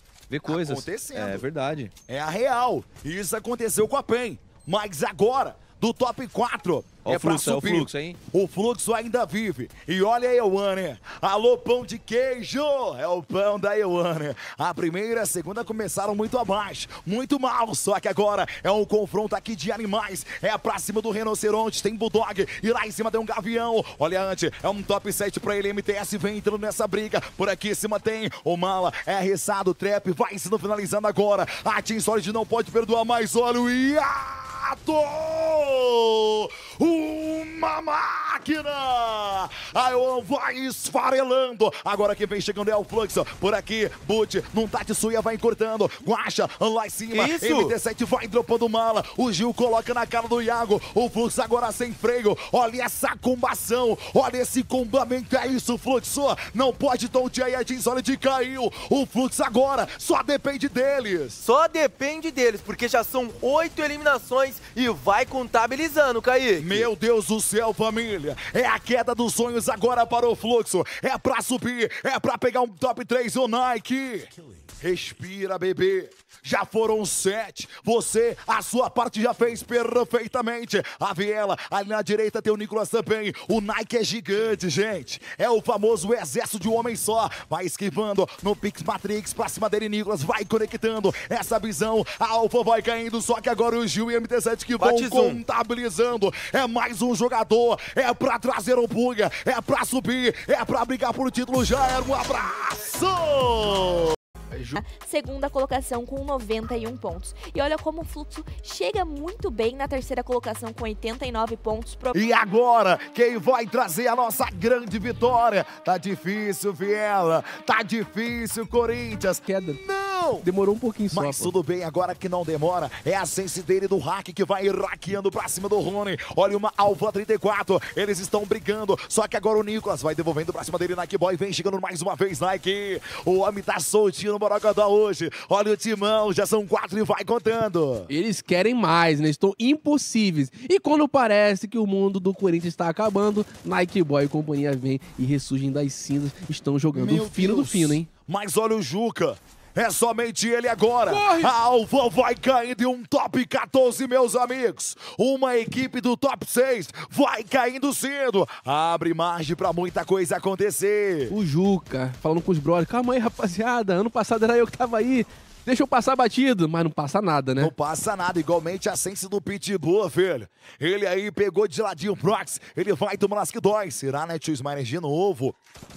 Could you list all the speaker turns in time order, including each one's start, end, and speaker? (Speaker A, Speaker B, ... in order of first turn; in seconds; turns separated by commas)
Speaker A: 0.3-1.9, Speaker B: 0.5-1.4, Speaker B: 2.1-61.4, Speaker A: 7.0-8.2, Speaker C: 47.1-47.7, Speaker C: 61.4-66.9, Speaker B: 66.6-74.3, Speaker B: 74.8-104.2, Speaker C: 94.8-95.4, Speaker D: 104.5-104.8, Speaker E: 104.8-112.2, Speaker B: 112.1-120.5, Speaker D: 119.5-119.8, Speaker D: 120.4-121.5, Speaker B: 121.1-138.1, Speaker D: 138.1-148.1, Speaker B: 146.9-161.3, Speaker D: 151.1-151.5, Speaker D: 161.3-167.7, Speaker B: 167.6-175.6